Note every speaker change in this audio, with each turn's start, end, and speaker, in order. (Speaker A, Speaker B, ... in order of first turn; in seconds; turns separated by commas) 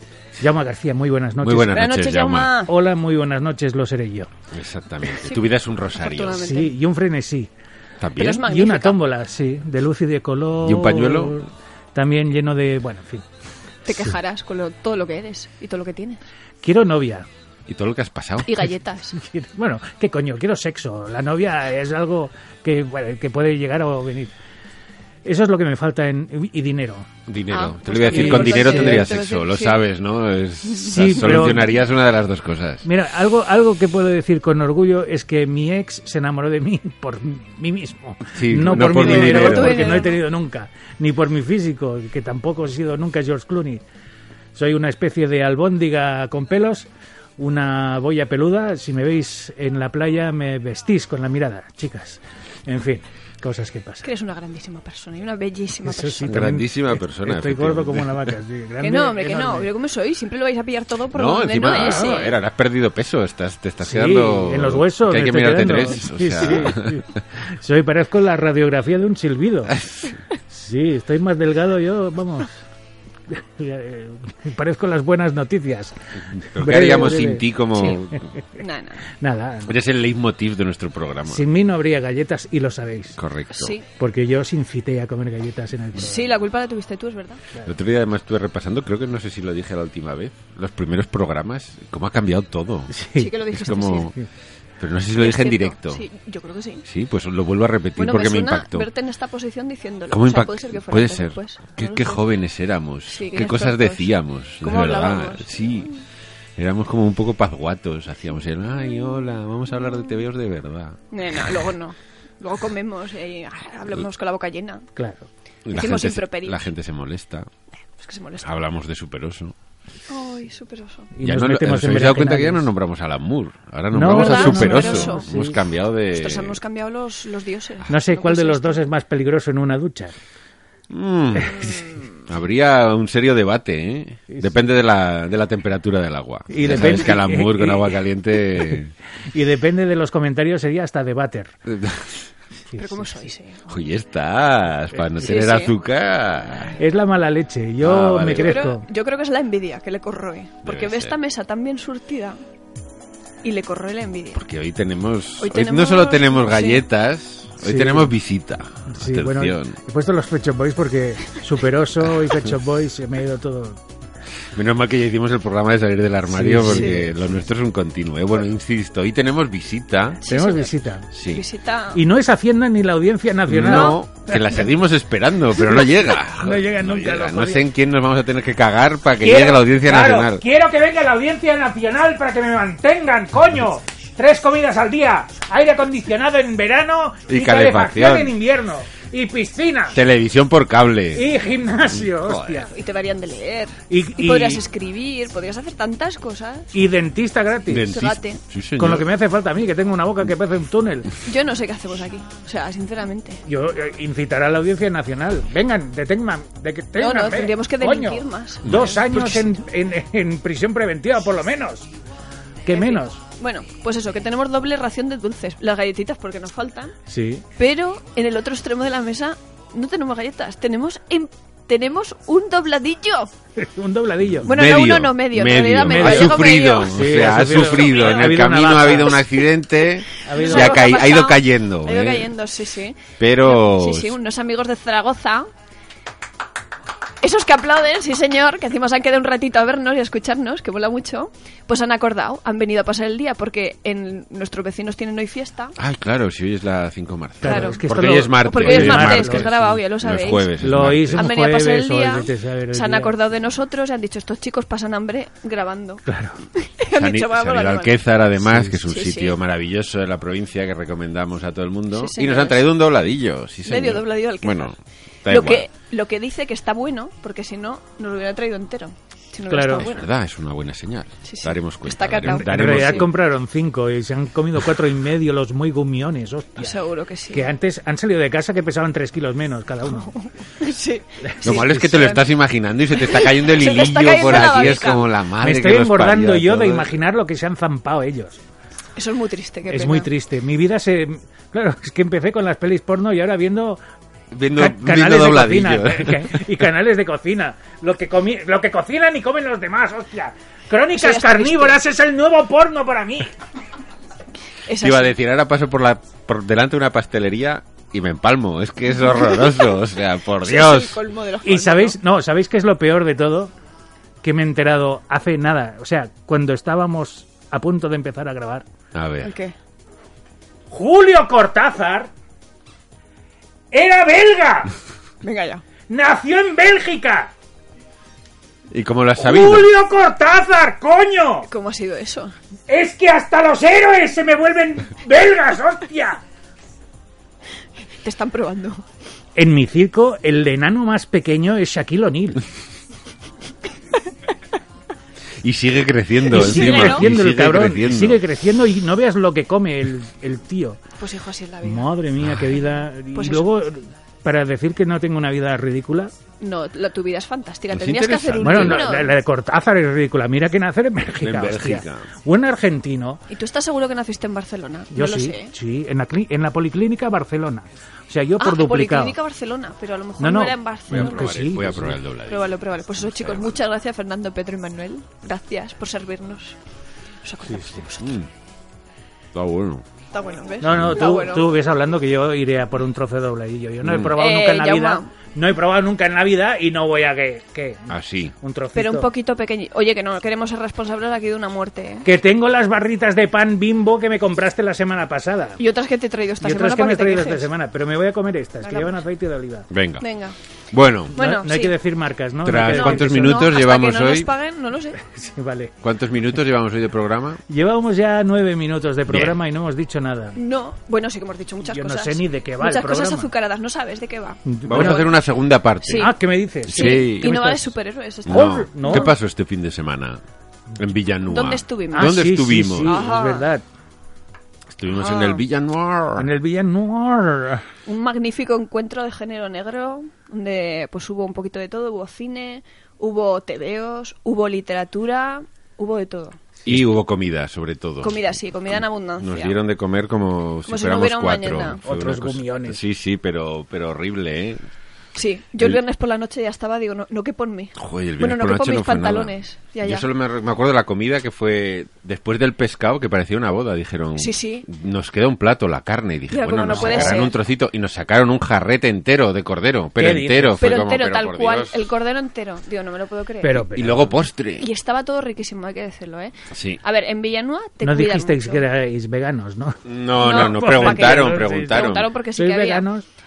Speaker A: 0.4-1.8, Speaker B: 1.4-2.5, Speaker C: 1.7-2.7, Speaker A: 2.7-4.3, Speaker B: 4.5-6.5, Speaker C: 5.1-6.7, Speaker A: 6.4-7.5, Speaker B: 8.0-8.4, Speaker C: 8.2-9.0, Speaker A: 8.4-13.2, Speaker B: 10.6-11.4, Speaker C: 13.8-16.2, Speaker A: 16.6-17.3, Speaker B: 17.7-18.6, Speaker C: 18.4-19.2, Speaker A: 19.2-24.3, Speaker A: 25.2-27.1, Speaker B: 27.3-32.9, Speaker C: 27.5-29.8, Speaker A: 28.1-29.2, Speaker C: 30.7-31.6, Speaker A: 30.9-31.7, Speaker A: 32.8-43.8, Speaker B: 38.3-40.0, Speaker C: 38.6-40.2, Speaker A: 44.5-54.1, Speaker C: 54.0-56.4, Speaker A: 55.9-59.7, Speaker B: 56.3-58.4, Speaker C: 58.8-62.3, Speaker B: 61.1-67.2, Speaker A: 61.7-62.1, Speaker A: 63.8-69.8, Speaker B: 69.7-70.2, Speaker A: 70.5-72.6, Speaker A: 73.3-77.5, Speaker B: 76.4-78.3, Speaker C: 78.6-79.0, Speaker A: 79.2-79.8, Speaker B: 79.7-81.5, Speaker A: 81.3-83.2, Speaker B: 83.2-83.8, Speaker C: 83.5-83.8, Speaker A: 84.0-86.3, Speaker C: 86.0-87.4, Speaker B: 87.6-93.0, Speaker A: 92.9-93.3, Speaker C: 93.2-94.1, Speaker B: 93.5-94.2, Speaker B: 94.8-96.0, Speaker C: 95.2-96.8, Speaker B: 96.8-98.9, Speaker C: 98.0-102.3, Speaker B: 100.1-105.9, Speaker C: 103.1-106.0, Speaker B: 106.6-111.7, Speaker C: 111.1-114.9, Speaker A: 115.0-115.3, Speaker B: 115.7-117.5, Speaker C: 115.7-116.6, Speaker C: 118.0-118.5, Speaker B: 118.4-119.5, Speaker C: 120.1-121.1, Speaker A: 121.2-122.7, Speaker B: 121.2-126.6, Speaker A: 123.9-125.6, Speaker C: 124.1-125.3, Speaker C: 126.1-128.8, Speaker A: 127.9-130.2, Speaker B: 130.9-138.9, Speaker C: 131.5-132.1, Speaker A: 136.5-137.9, Speaker A: 139.3-141.5, Speaker B: 141.7-142.3, Speaker A: 142.7-143.3, Speaker C: 142.8-143.7, Speaker B: 143.7-146.8, Speaker C: 145.2-145.7, Speaker A: 146.8-148.8, Speaker B: 147.8-148.7, Speaker C: 148.3-152.4, Speaker B: 150.6-151.2, Speaker C: 153.4-154.4, Speaker B: 154.3-159.8, Speaker C: 155.4-156.8, Speaker A: 157.6-158.1, Speaker A: 158.9-163.8, Speaker B: 162.1-162.5, Speaker B: 164.5-170.2, Speaker A: 166.3-167.1, Speaker C: 166.6-167.0, Speaker C: 170.2-170.7, Speaker A: 170.3-171.1, Speaker B: 171.1-171.4, Speaker C: 171.2-172.0, Speaker A: 171.9-174.4, Speaker B: 173.5-180.4, Speaker C: 173.7-173.9, Speaker A: 175.6-177.7, Speaker A: 179.2-190.0, Speaker B: 187.3-188.3, Speaker B: 189.9-191.3, Speaker A: 191.1-192.7, Speaker B: 191.9-192.7, Speaker C: 192.7-196.7, Speaker A: 193.9-194.6, Speaker A: 196.7-197.9, Speaker B: 197.7-199.1, Speaker C: 197.8-198.4, Speaker A: 198.8-201.1, Speaker C: 201.2-203.4, Speaker A: 203.4-211.9, Speaker C: 207.0-209.4, Speaker B: 208.6-209.4, Speaker A: 212.7-213.2, Speaker C: 212.7-216.9, Speaker A: 217.1-217.4, Speaker C: 217.6-223.3, Speaker A: 223.6-224.5, Speaker B: 224.3-232.3, Speaker C: 224.4-228.3, Speaker A: 225.9-229.2, Speaker A: 230.2-230.8, Speaker C: 230.3-235.5, Speaker B: 233.2-234.1, Speaker C: 237.2-245.7, Speaker B: 245.8-251.2, Speaker A: 247.4-249.5, Speaker C: 247.4-247.8, Speaker C: 248.4-258.0, Speaker A: 250.6-253.2, Speaker A: 256.1-256.3, Speaker B: 256.9-265.7, Speaker A: 258.5-258.8, Speaker C: 258.9-259.4, Speaker C: 261.9-262.6, Speaker C: 263.6-264.7, Speaker C: 265.2-270.1, Speaker A: 269.5-269.9, Speaker B: 269.7-273.1, Speaker C: 271.2-273.0, Speaker A: 272.3-276.8, Speaker C: 276.6-277.5, Speaker A: 277.3-280.1, Speaker C: 279.9-282.2, Speaker A: 281.4-281.8, Speaker B: 281.4-286.9, Speaker C: 282.9-285.1, Speaker A: 285.4-288.4, Speaker C: 288.9-290.1, Speaker A: 289.7-293.8, Speaker B: 294.3-296.6, Speaker A: 294.5-303.3, Speaker C: 300.9-301.8, Speaker C: 304.6-305.1, Speaker B: 304.8-311.0, Speaker C: 310.4-312.0, Speaker A: 311.4-313.5, Speaker A: 314.2-318.6, Speaker B: 318.9-319.3, Speaker C: 319.2-319.5, Speaker A: 320.7-322.1, Speaker A: 323.7-324.7, Speaker C: 325.2-325.6, Speaker A: 325.9-327.3, Speaker B: 328.7-329.7, Speaker A: 329.2-331.5, Speaker C: 331.5-332.3, Speaker A: 332.7-336.2, Speaker C: 338.0-338.8, Speaker A: 339.4-342.4, Speaker B: 345.4-348.2, Speaker A: 346.3-350.8, Speaker C: 346.3-347.1, Speaker C: 351.0-351.9, Speaker A: 351.6-356.1, Speaker B: 352.2-352.5, Speaker C: 353.1-353.5, Speaker C: 356.4-359.1, Speaker B: 357.7-359.0, Speaker A: 358.4-363.2, Speaker B: 361.2-362.1, Speaker C: 363.3-365.5, Speaker A: 364.9-369.1, Speaker C: 368.4-371.4, Speaker A: 370.2-372.0, Speaker B: 370.9-373.6, Speaker C: 372.3-376.6, Speaker C: 377.2-378.2, Speaker A: 377.5-377.8, Speaker B: 378.0-378.3, Speaker B: 379.3-379.9, Speaker C: 380.1-381.6, Speaker A: 380.6-389.1, Speaker B: 380.7-381.0, Speaker B: 383.8-384.1, Speaker C: 384.1-385.1, Speaker B: 387.9-388.3, Speaker C: 388.7-392.1, Speaker A: 392.0-395.6, Speaker C: 395.6-397.5, Speaker A: 396.4-399.7, Speaker C: 398.6-399.0, Speaker B: 399.7-400.1, Speaker C: 400.0-400.4, Speaker B: 400.7-401.1, Speaker C: 401.1-401.8, Speaker A: 401.1-403.4, Speaker B: 402.4-404.3, Speaker C: 402.7-405.0, Speaker A: 405.0-405.7, Speaker B: 405.8-407.4, Speaker A: 407.5-410.4, Speaker B: 409.1-409.4, Speaker C: 410.4-415.1, Speaker A: 411.7-413.3, Speaker A: 414.4-415.1, Speaker B: 414.6-416.1, Speaker C: 415.8-416.1, Speaker A: 415.9-417.6, Speaker B: 416.6-417.3, Speaker C: 416.7-419.1, Speaker B: 418.2-420.2, Speaker A: 418.3-419.1, Speaker B: 420.8-423.0, Speaker C: 421.3-422.2, Speaker A: 421.9-423.6, Speaker C: 422.8-423.5, Speaker B: 424.7-426.3, Speaker C: 424.9-425.4, Speaker A: 426.2-427.6, Speaker C: 427.9-436.4, Speaker B: 436.6-438.2, Speaker C: 438.0-439.6, Speaker B: 438.7-444.6, Speaker C: 440.7-441.8, Speaker A: 441.8-442.8, Speaker C: 445.1-450.1, Speaker B: 447.8-461.8, Speaker C: 454.2-454.7, Speaker C: 456.3-457.3, Speaker A: 456.7-457.2, Speaker A: 460.0-460.6, Speaker C: 460.6-463.7, Speaker A: 463.4-464.1, Speaker B: 463.7-464.7, Speaker C: 464.6-468.6, Speaker B: 466.5-466.8, Speaker A: 467.8-471.8, Speaker B: 469.8-472.1, Speaker C: 470.2-472.9, Speaker A: 472.4-473.0